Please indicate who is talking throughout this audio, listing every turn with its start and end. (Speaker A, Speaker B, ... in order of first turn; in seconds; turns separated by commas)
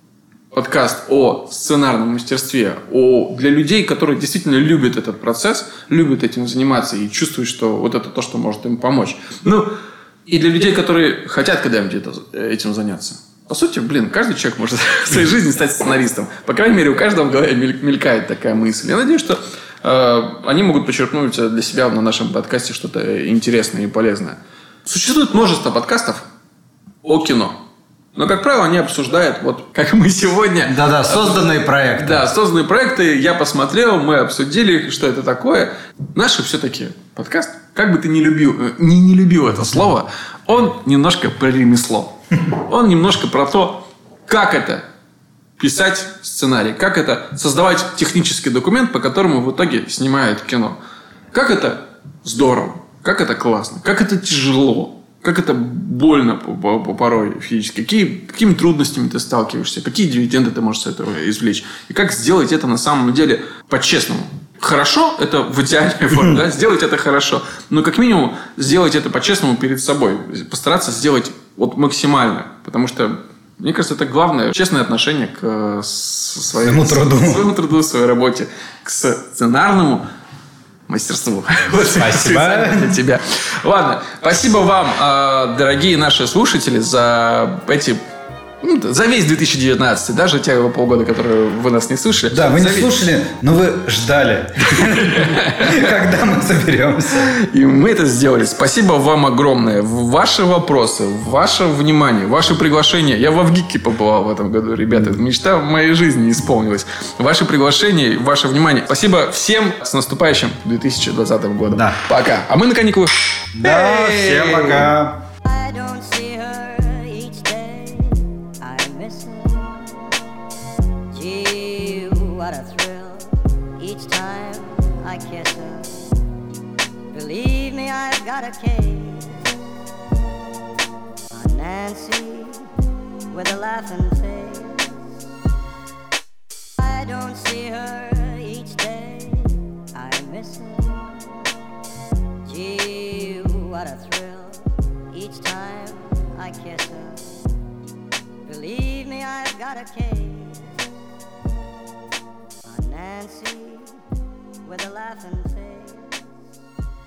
Speaker A: 0.5-9.7, Speaker A: 10.3-26.3, Speaker A: 27.0-27.6, Speaker A: 28.1-44.9, Speaker B: 30.7-32.3, Speaker A: 45.6-50.8, Speaker A: 51.3-80.0, Speaker B: 76.6-77.5, Speaker A: 80.9-88.0, Speaker B: 81.9-83.0, Speaker A: 88.6-92.9, Speaker B: 92.3-97.3, Speaker A: 94.7-95.8, Speaker A: 97.2-114.9, Speaker B: 111.7-112.0, Speaker B: 113.5-115.2, Speaker C: 115.4-120.1, Speaker C: 121.1-126.1, Speaker C: 127.1-129.5, Speaker C: 131.3-132.7, Speaker C: 133.3-135.1, Speaker C: 136.8-141.4, Speaker C: 142.5-147.3, Speaker C: 148.4-150.8, Speaker C: 152.7-154.0, Speaker C: 154.7-156.3